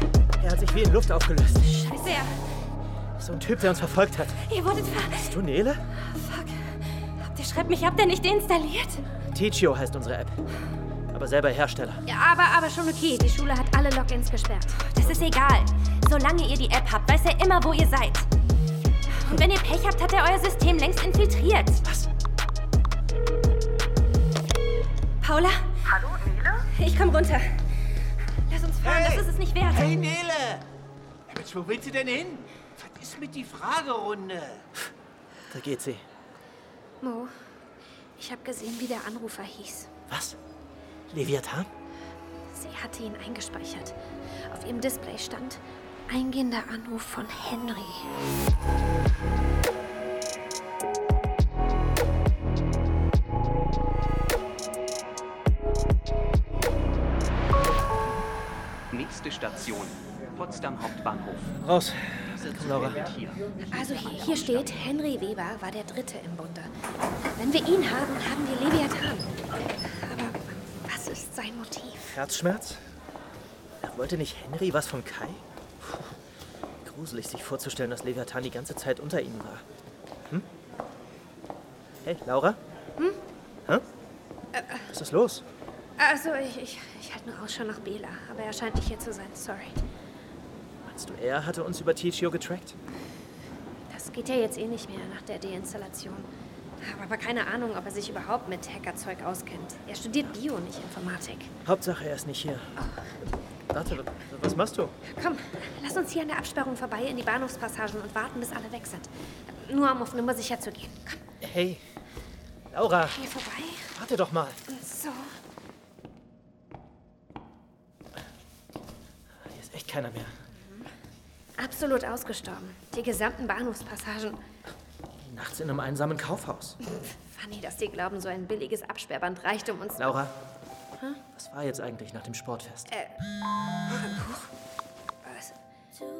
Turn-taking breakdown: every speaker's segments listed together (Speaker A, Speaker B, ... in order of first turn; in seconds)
Speaker A: 0.4-1.7, 3.2-4.4, 5.0-5.8, 9.3-10.4, 11.1-12.0, 15.0-15.3, 35.5-36.0, 40.1-40.4, 41.1-41.7, 61.6-63.1, 72.1-72.8, 73.8-76.2, 76.8-79.6, 82.0-82.6, 84.9-85.4, 90.8-92.8, 101.6-102.7, 103.7-104.9, 111.4-111.8, 112.7-113.2, 113.9-114.6, 119.4-120.3, 125.2-126.8, 130.0-130.3, 131.3-132.9
Speaker B: 1.7-2.3, 4.5-5.4, 6.1-9.0, 14.9-18.3, 19.1-21.8, 25.2-25.6, 26.7-27.6, 28.5-30.0
Speaker C: 12.1-14.8, 37.0-37.3, 38.2-39.9, 42.5-48.1, 63.7-66.7, 67.3-69.3, 69.8-72.2, 84.5-84.9, 86.0-89.8, 93.9-96.3, 96.8-101.5, 102.8-103.1, 105.1-111.2, 113.1-113.9, 114.7-115.3, 121.6-124.4, 127.3-130.2, 132.9-133.2, 133.9-134.5, 135.2-135.6
Speaker D: 28.8-30.6, 31.3-34.7
Speaker E: 58.9-61.6, 62.3-64.7